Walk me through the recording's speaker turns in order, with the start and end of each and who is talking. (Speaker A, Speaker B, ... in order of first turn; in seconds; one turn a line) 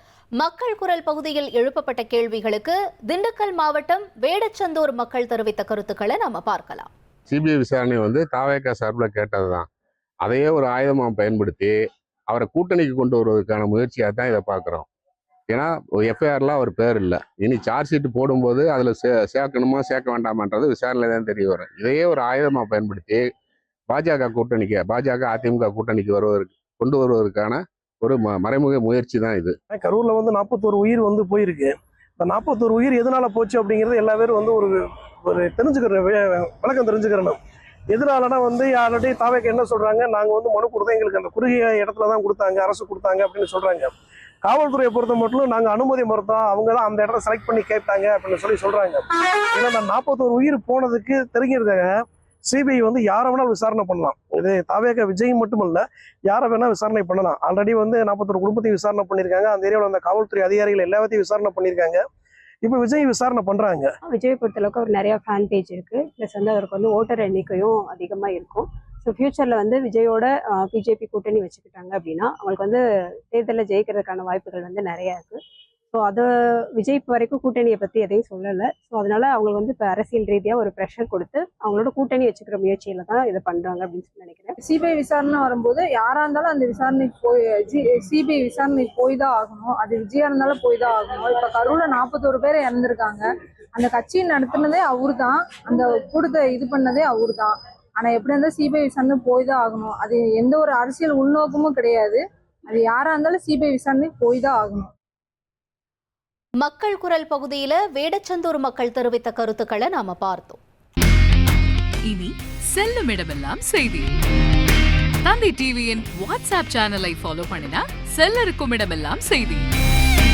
Speaker A: 0.4-6.9
Speaker B: 7.3-9.7
Speaker B: 10.2-11.8
Speaker B: 12.3-14.9
Speaker B: 15.5-23.3
Speaker B: 23.9-29.6
Speaker C: 29.7-37.4
Speaker C: 37.9-43.9
Speaker C: 44.4-62.0
Speaker C: 62.6-63.9
Speaker D: 64.0-75.4
Speaker D: 75.9-84.6
Speaker E: 84.7-93.2
Speaker E: 93.8-104.9
Speaker A: 106.6-110.6
Speaker F: 112.1-114.1
Speaker F: 115.2-119.7